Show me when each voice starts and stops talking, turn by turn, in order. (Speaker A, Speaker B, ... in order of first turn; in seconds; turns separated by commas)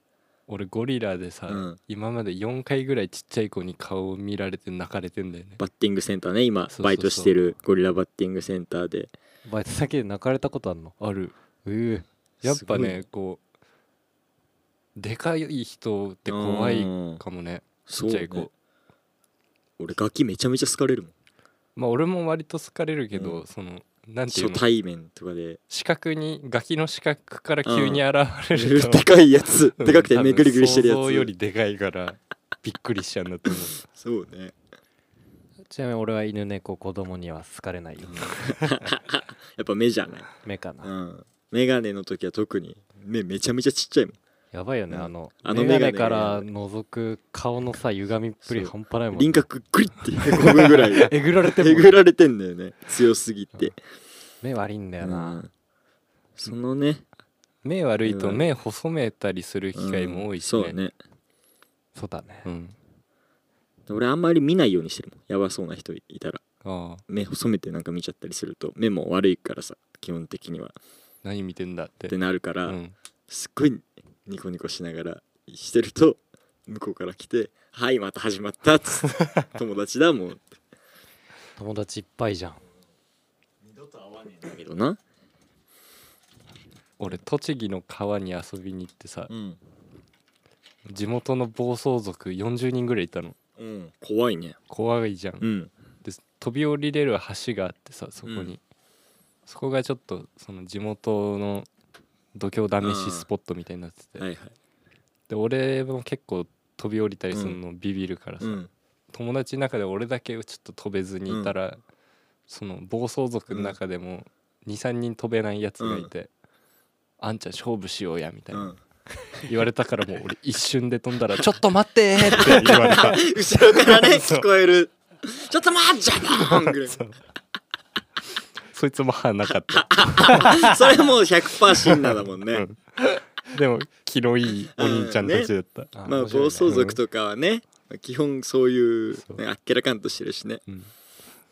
Speaker A: 0.5-5.6, Speaker B: 1.5-1.8, Speaker B: 5.6-9.1, Speaker A: 6.7-7.3, Speaker C: 9.5-11.0, Speaker A: 11.0-11.3, Speaker C: 11.6-12.1, Speaker B: 12.4-13.0, Speaker A: 12.4-13.4, Speaker A: 15.0-18.5, Speaker B: 16.3-17.2, Speaker B: 17.9-18.5, Speaker B: 19.8-21.1, Speaker A: 21.8-24.6, Speaker B: 23.1-23.4, Speaker B: 24.3-25.6, Speaker A: 25.7-29.1, Speaker B: 27.6-28.0, Speaker B: 28.5-31.3, Speaker A: 29.8-33.8, Speaker B: 33.9-34.5, Speaker C: 35.7-38.4, Speaker B: 38.1-40.3, Speaker C: 40.4-40.9, Speaker B: 40.8-44.2, Speaker C: 44.5-49.3, Speaker B: 44.9-46.5, Speaker B: 48.5-53.8, Speaker C: 50.4-52.0, Speaker C: 54.4-55.4, Speaker B: 55.0-55.5, Speaker B: 56.4-57.0, Speaker A: 57.9-60.8, Speaker B: 58.0-58.4, Speaker B: 59.8-61.0, Speaker C: 62.0-62.5, Speaker A: 62.5-62.8, Speaker B: 63.9-66.4, Speaker A: 66.6-67.0, Speaker B: 67.1-70.8, Speaker A: 71.2-73.0, Speaker B: 72.1-80.5, Speaker C: 81.6-82.6, Speaker B: 83.6-85.0, Speaker A: 87.0-89.3, Speaker B: 89.3-89.6, Speaker A: 90.9-93.4, Speaker B: 93.6-94.6, Speaker A: 94.7-95.5, Speaker B: 95.4-95.7, Speaker A: 96.0-98.6, Speaker B: 98.2-98.5, Speaker A: 99.5-101.7, Speaker A: 102.3-104.2, Speaker B: 102.8-103.3, Speaker B: 104.2-104.5, Speaker A: 105.3-108.6, Speaker B: 107.3-107.6, Speaker B: 108.4-108.7, Speaker A: 109.1-111.8, Speaker B: 111.3-111.5, Speaker A: 112.5-116.3, Speaker B: 113.5-113.8, Speaker B: 115.8-116.1, Speaker A: 117.2-118.7, Speaker B: 118.5-118.8, Speaker A: 119.4-124.5, Speaker B: 122.2-127.0, Speaker A: 126.4-127.2, Speaker A: 128.7-130.8, Speaker B: 129.7-132.7, Speaker A: 131.8-135.9, Speaker B: 134.8-135.5, Speaker C: 136.0-136.9, Speaker B: 136.1-140.6, Speaker A: 136.7-137.0, Speaker A: 139.1-139.4, Speaker A: 140.7-140.9